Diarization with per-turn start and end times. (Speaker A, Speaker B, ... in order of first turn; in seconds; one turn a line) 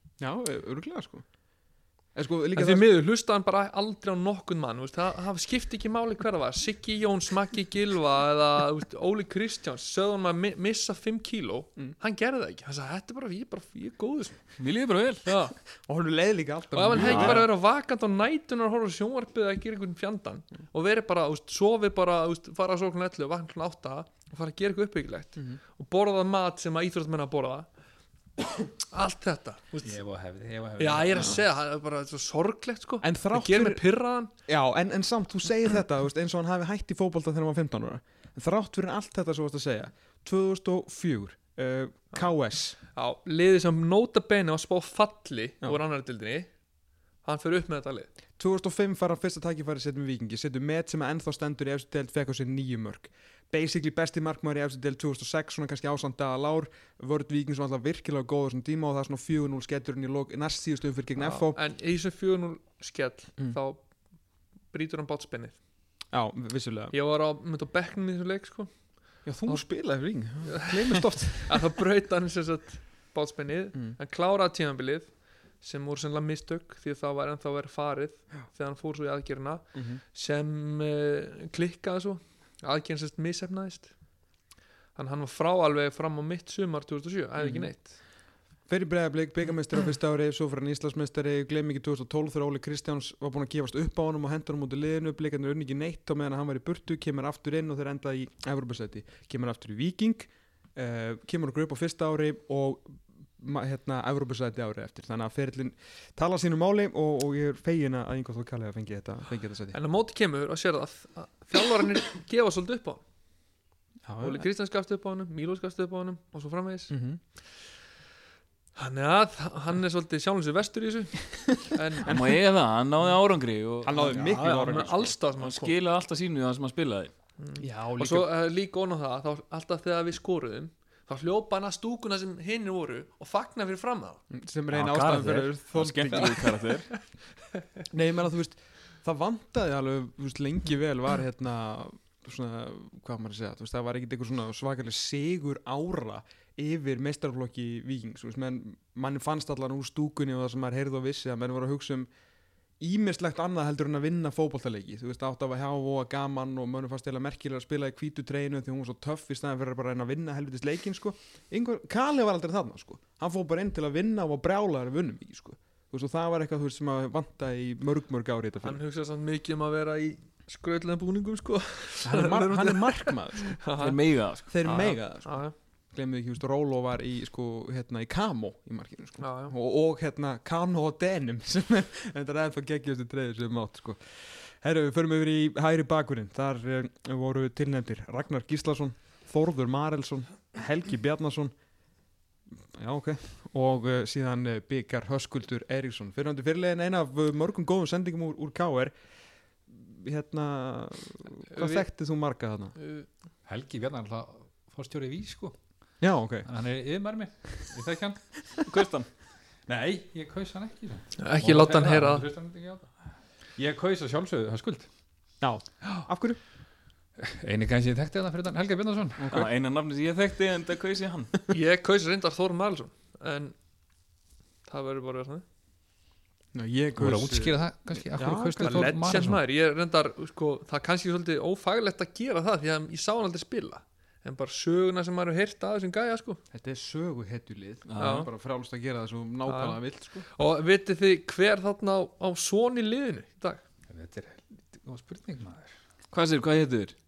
Speaker A: 0.2-1.2
Speaker A: 2.1-2.9
Speaker B: 2.5-14.4
Speaker C: 14.6-15.3
Speaker B: 15.2-15.6
Speaker A: 15.9-17.5
Speaker B: 16.7-27.7
Speaker C: 16.9-17.5
Speaker B: 28.9-30.0
Speaker D: 29.8-31.4
Speaker B: 30.8-34.3
Speaker A: 33.0-33.8
Speaker A: 34.5-42.8
Speaker B: 42.9-46.5
Speaker B: 47.2-48.1
Speaker A: 48.4-61.6
Speaker B: 61.2-63.8
Speaker B: 64.7-65.6
Speaker A: 66.1-66.9
Speaker B: 66.9-68.8
Speaker A: 69.2-71.7
Speaker B: 70.4-83.9
Speaker A: 79.7-80.0
Speaker B: 85.0-88.0
Speaker A: 87.4-87.7
Speaker A: 88.7-109.8
Speaker B: 109.7-113.0
Speaker A: 114.1-114.5
Speaker B: 114.2-117.0
Speaker A: 116.9-117.2
Speaker B: 118.8-122.2
Speaker A: 122.0-122.4
Speaker C: 122.1-127.1
Speaker A: 123.8-125.1
Speaker B: 124.1-125.8
Speaker B: 127.4-134.2
Speaker A: 127.6-128.3
Speaker A: 134.3-136.6
Speaker D: 134.7-135.5
Speaker C: 135.7-136.9
Speaker A: 137.9-152.1
Speaker A: 152.8-168.8
Speaker B: 168.6-174.0
Speaker A: 172.0-173.6
Speaker C: 173.8-174.6
Speaker A: 174.5-175.4
Speaker B: 174.6-175.5
Speaker A: 175.9-191.5
Speaker B: 179.2-179.5
Speaker A: 192.6-198.9
Speaker A: 199.7-202.8
Speaker B: 201.5-201.9
Speaker B: 202.8-203.1
Speaker D: 203.5-205.6
Speaker A: 206.0-206.5
Speaker D: 206.5-208.3
Speaker C: 208.6-209.1
Speaker D: 209.7-212.9
Speaker B: 211.2-212.3
Speaker D: 213.6-214.9
Speaker A: 215.4-216.4
Speaker D: 217.3-219.3
Speaker A: 219.2-219.5
Speaker C: 219.3-221.3
Speaker B: 221.5-223.6
Speaker B: 224.7-225.4
Speaker A: 226.5-229.2
Speaker D: 227.0-229.4
Speaker B: 228.6-236.4
Speaker A: 236.5-240.3
Speaker C: 237.9-238.3
Speaker B: 238.0-238.3
Speaker B: 239.5-243.6
Speaker D: 243.9-245.7
Speaker C: 246.1-246.9